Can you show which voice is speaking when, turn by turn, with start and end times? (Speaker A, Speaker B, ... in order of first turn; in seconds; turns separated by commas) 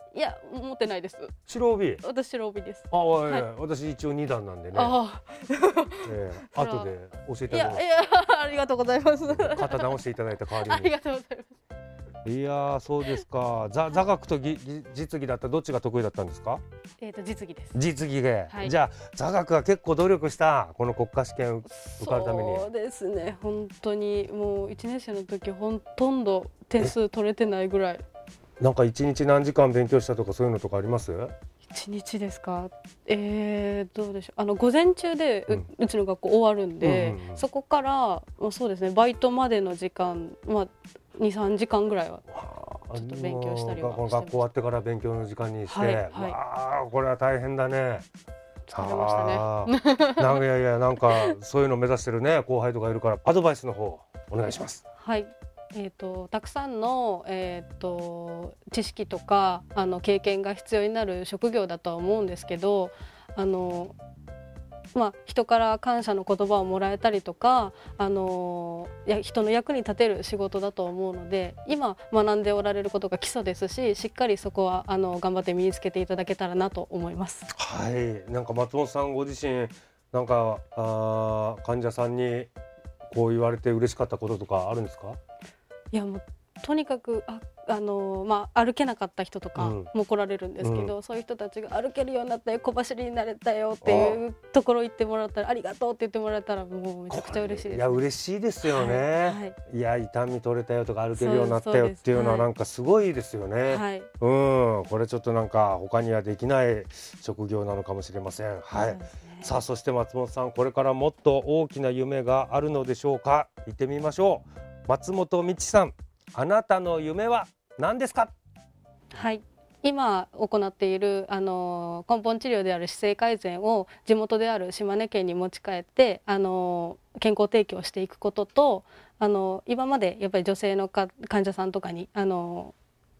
Speaker A: 0.1-1.4, Speaker B: 1.5-2.0, Speaker A: 2.0-3.5, Speaker B: 2.9-5.0, Speaker A: 4.7-6.9, Speaker B: 6.0-7.8, Speaker A: 7.5-10.0, Speaker B: 9.3-10.9, Speaker A: 10.6-11.6, Speaker B: 12.2-16.6, Speaker A: 17.0-17.8, Speaker B: 17.7-22.7, Speaker A: 21.7-28.0, Speaker B: 28.6-31.3, Speaker A: 31.7-42.2, Speaker B: 36.8-37.4, Speaker B: 42.3-48.1, Speaker A: 42.9-44.5, Speaker A: 45.7-46.4, Speaker A: 48.7-50.4, Speaker B: 48.7-54.8, Speaker A: 51.1-51.4, Speaker A: 55.0-64.0, Speaker A: 64.9-77.5, Speaker B: 77.5-82.5, Speaker B: 83.1-85.2, Speaker A: 85.9-98.0, Speaker B: 89.6-89.9, Speaker B: 90.6-90.9, Speaker B: 93.8-94.2, Speaker B: 97.1-118.3, Speaker A: 98.6-99.6, Speaker A: 101.2-102.5, Speaker A: 103.7-104.1, Speaker A: 108.7-109.5, Speaker A: 119.1-132.8